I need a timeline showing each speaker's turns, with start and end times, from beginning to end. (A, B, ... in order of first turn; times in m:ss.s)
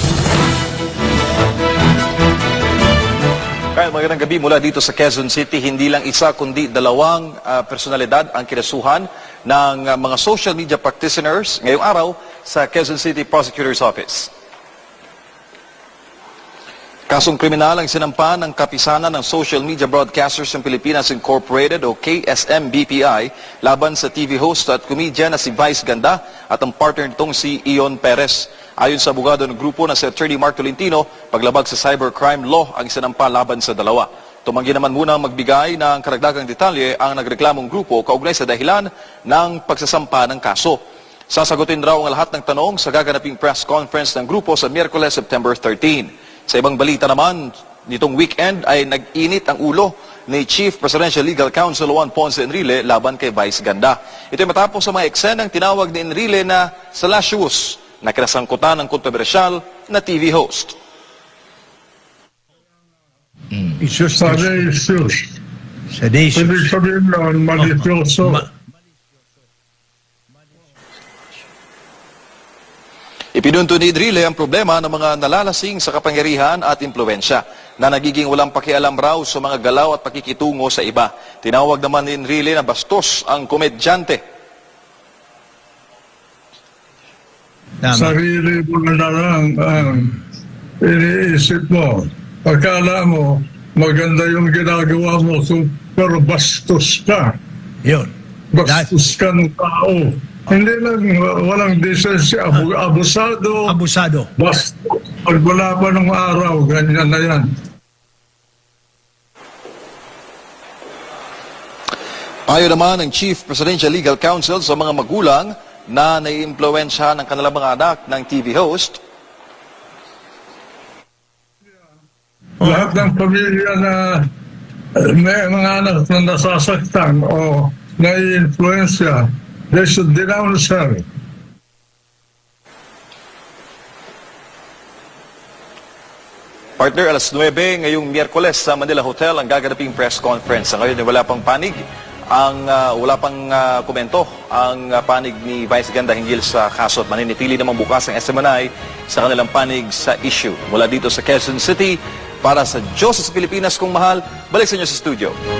0:03.7-0:14.3 A
0:17.1-1:00.8 A
1:03.8-1:04.6 B
1:04.2-1:05.2 C
1:05.9-1:06.7 B
1:06.3-1:08.4 C
1:13.3-1:24.2 A
1:27.8-1:28.2 B
1:27.9-1:30.2 C
1:30.8-1:37.4 C
1:37.8-1:38.1 B
1:38.5-1:43.8 C
1:38.6-1:38.9 B
1:43.7-1:44.3 B
1:44.4-1:47.5 C
1:52.5-1:59.0 A
2:02.6-2:04.3 C
2:05.0-2:11.0 C
2:16.8-2:35.4 A